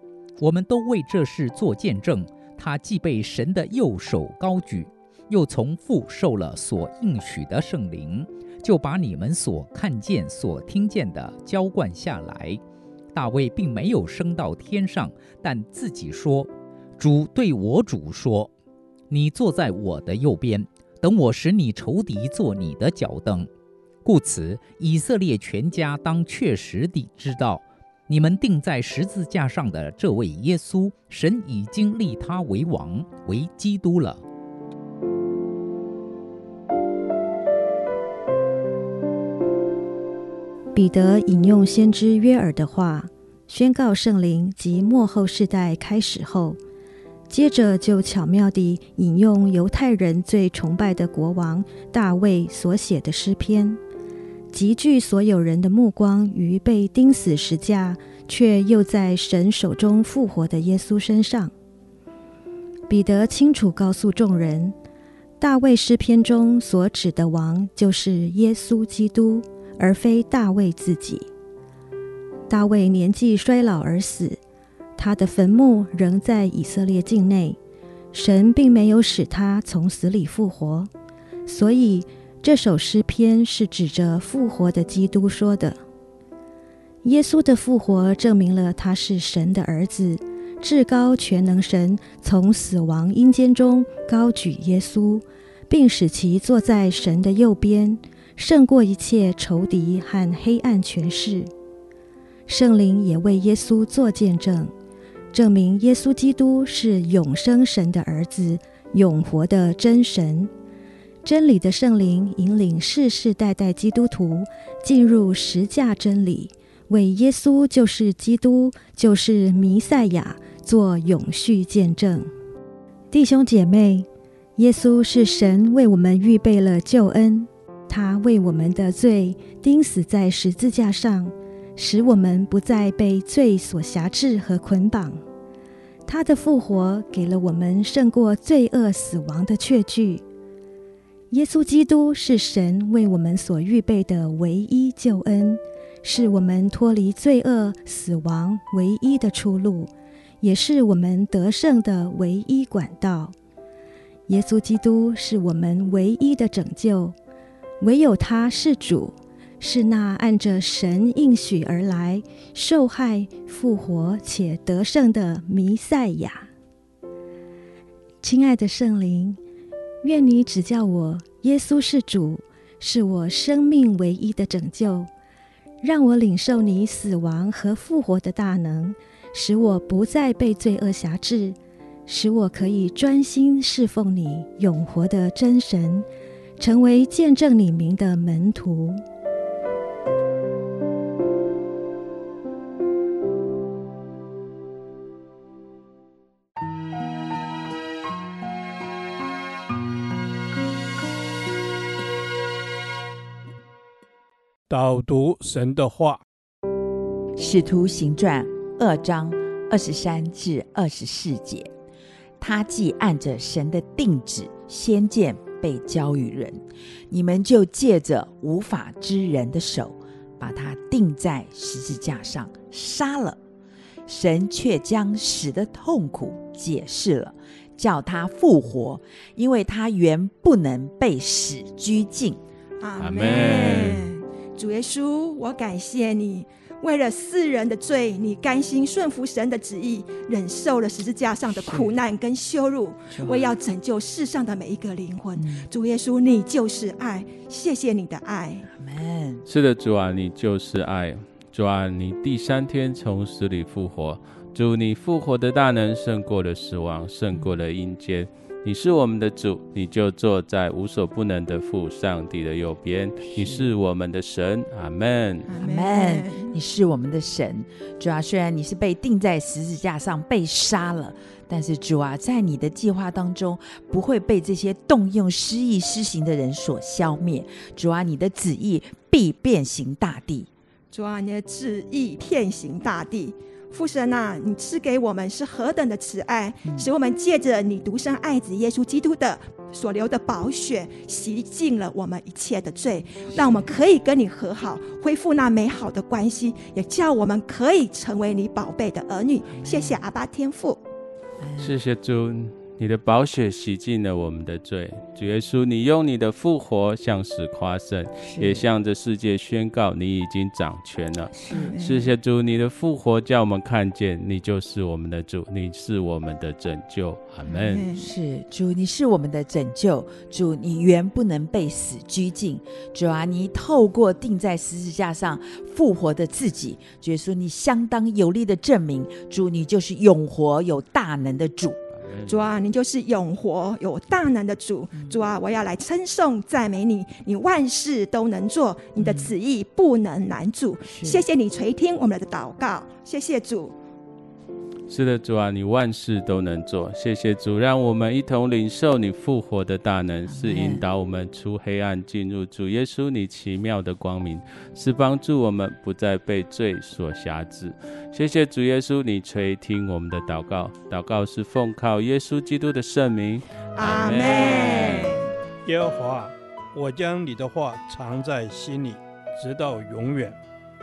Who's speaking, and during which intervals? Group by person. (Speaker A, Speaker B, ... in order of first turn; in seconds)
Speaker A: 0.4-12.6, 13.1-18.5, 19.1-23.5, 24.0-34.2
Speaker B: 40.8-46.6, 47.3-53.8, 54.5-61.5, 62.9-64.8, 65.4-71.3, 72.5-74.4, 75.0-77.6, 78.1-80.9, 81.5-85.8, 87.0-101.5, 102.5-104.7, 105.3-110.5, 111.2-122.3, 123.1-135.2, 136.1-140.2, 141.3-149.9, 150.4-153.3, 154.3-157.2, 157.8-166.5, 168.2-169.4, 170.0-175.1, 175.8-186.1, 186.6-189.0
Speaker C: 204.7-206.2, 365.7-370.4
Speaker D: 207.4-211.7, 212.4-223.4, 224.1-232.4, 233.6-233.9, 241.4-242.0, 243.1-243.6, 245.3-245.7, 248.7-249.4, 263.2-263.7, 265.5-280.5, 286.6-286.9, 293.3-293.8, 299.4-300.1, 301.4-301.8, 308.2-308.6, 311.3-311.8, 317.4-331.8, 334.9-335.3, 338.9-339.4, 340.8-341.3, 350.3-350.8
Speaker E: 232.8-248.6, 265.7-266.3, 280.9-300.8, 311.7-312.1, 332.3-343.8, 363.8-365.3
Speaker F: 233.0-234.1, 249.5-265.6, 301.6-317.9, 332.1-332.6, 344.9-365.1